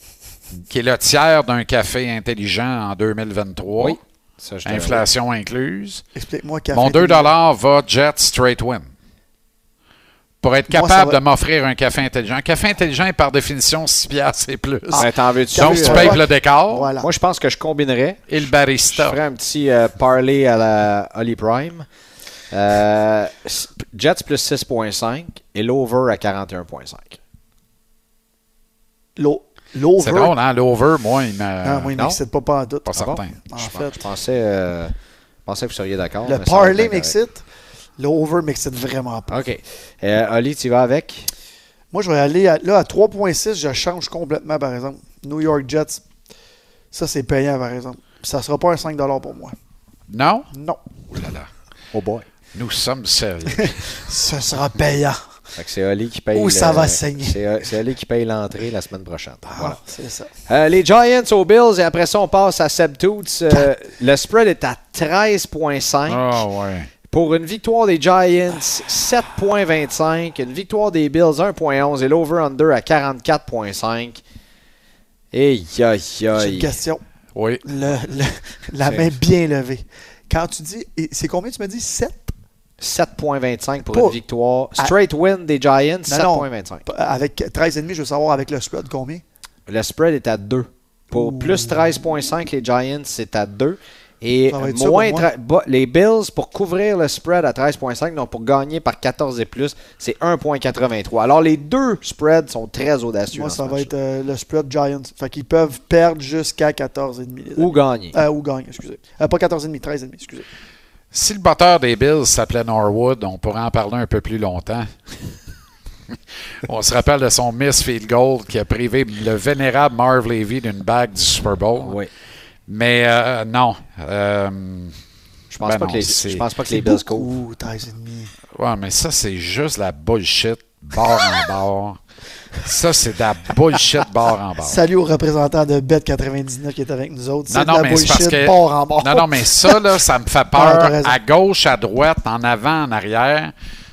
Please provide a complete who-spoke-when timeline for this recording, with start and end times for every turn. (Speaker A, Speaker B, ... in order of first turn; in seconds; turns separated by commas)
Speaker A: 0.7-4.0, Speaker B: 3.8-5.0, Speaker A: 4.6-6.0, Speaker C: 6.1-7.3, Speaker A: 6.7-8.9, Speaker A: 10.4-16.9, Speaker C: 10.7-11.2, Speaker C: 14.9-17.1, Speaker B: 15.0-16.2, Speaker B: 17.0-18.3, Speaker A: 18.3-19.2, Speaker B: 18.9-21.9, Speaker B: 22.5-27.2, Speaker C: 29.2-30.3, Speaker A: 30.0-31.9, Speaker C: 31.6-34.0, Speaker A: 32.9-33.3, Speaker B: 33.0-34.9, Speaker B: 35.5-37.1, Speaker C: 36.2-37.4, Speaker C: 38.0-39.4, Speaker B: 39.3-41.3, Speaker C: 41.9-46.0, Speaker C: 46.9-49.5, Speaker A: 50.1-50.5, Speaker C: 50.5-50.8, Speaker A: 51.1-51.5, Speaker B: 51.9-52.2, Speaker A: 52.5-54.0, Speaker C: 53.6-55.2, Speaker B: 55.6-59.8, Speaker C: 56.3-57.4, Speaker C: 59.5-60.3, Speaker B: 60.5-66.4, Speaker A: 66.1-66.9, Speaker B: 67.1-74.2, Speaker B: 75.3-76.7, Speaker C: 76.3-77.0, Speaker A: 77.3-77.6, Speaker C: 77.6-82.3, Speaker B: 82.8-86.8, Speaker C: 83.9-84.2, Speaker C: 86.1-89.2, Speaker B: 89.7-103.9, Speaker C: 91.1-91.8, Speaker C: 94.5-95.3, Speaker C: 103.3-110.5, Speaker B: 107.6-108.2, Speaker A: 111.1-114.9, Speaker A: 116.6-122.0, Speaker B: 121.8-122.1, Speaker A: 122.7-124.9, Speaker B: 125.5-127.3, Speaker A: 125.6-126.5, Speaker C: 126.7-128.3, Speaker A: 128.5-132.0, Speaker A: 132.6-134.8, Speaker C: 134.6-139.8, Speaker A: 137.5-143.5, Speaker C: 140.5-141.2